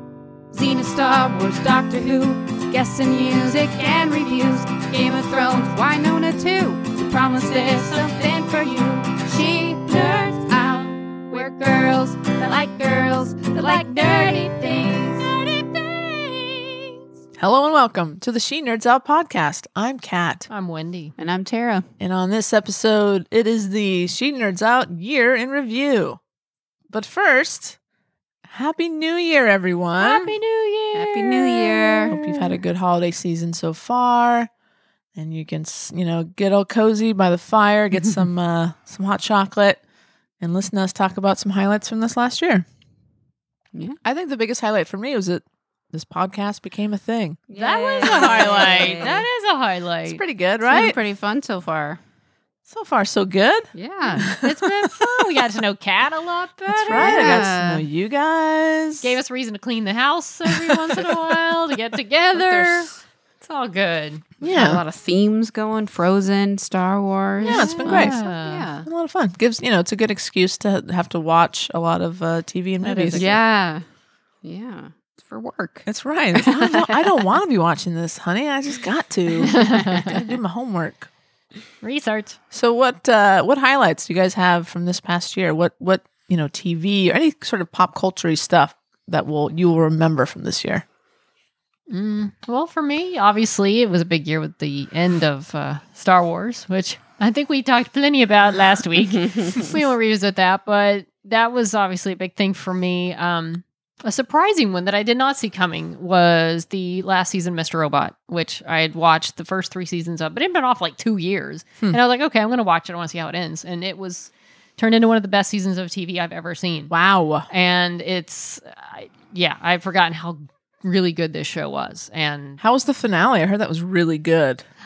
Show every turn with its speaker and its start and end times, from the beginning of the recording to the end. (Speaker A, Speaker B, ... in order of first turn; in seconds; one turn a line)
Speaker A: 0.5-15.3
Speaker B: 13.6-17.0
Speaker C: 17.4-20.5
Speaker B: 20.5-21.1
Speaker A: 21.2-21.9
Speaker C: 22.0-26.2
Speaker C: 26.9-27.8
Speaker C: 28.4-30.4
Speaker B: 30.0-32.4
Speaker A: 30.9-32.1
Speaker C: 32.1-34.5
Speaker C: 35.1-39.8
Speaker C: 40.4-42.6
Speaker C: 44.0-47.5
Speaker A: 47.5-49.2
Speaker B: 47.5-50.2
Speaker C: 48.0-49.2
Speaker C: 50.0-51.0
Speaker A: 50.6-52.0
Speaker C: 52.7-55.3
Speaker A: 53.8-54.3
Speaker B: 54.0-57.5
Speaker C: 56.7-59.2
Speaker A: 56.9-57.8
Speaker B: 59.0-62.9
Speaker C: 60.5-61.3
Speaker A: 62.4-62.9
Speaker B: 63.4-64.3
Speaker C: 64.4-64.8
Speaker A: 64.4-68.9
Speaker B: 67.4-68.7
Speaker C: 67.4-68.2
Speaker C: 68.9-73.3
Speaker B: 72.8-73.4
Speaker A: 73.1-73.8
Speaker A: 74.4-76.8
Speaker C: 75.9-81.1
Speaker B: 79.4-80.2
Speaker B: 81.8-82.4
Speaker C: 82.5-90.8
Speaker B: 91.9-117.0
Speaker C: 116.9-117.5
Speaker B: 117.5-122.6
Speaker C: 122.6-124.7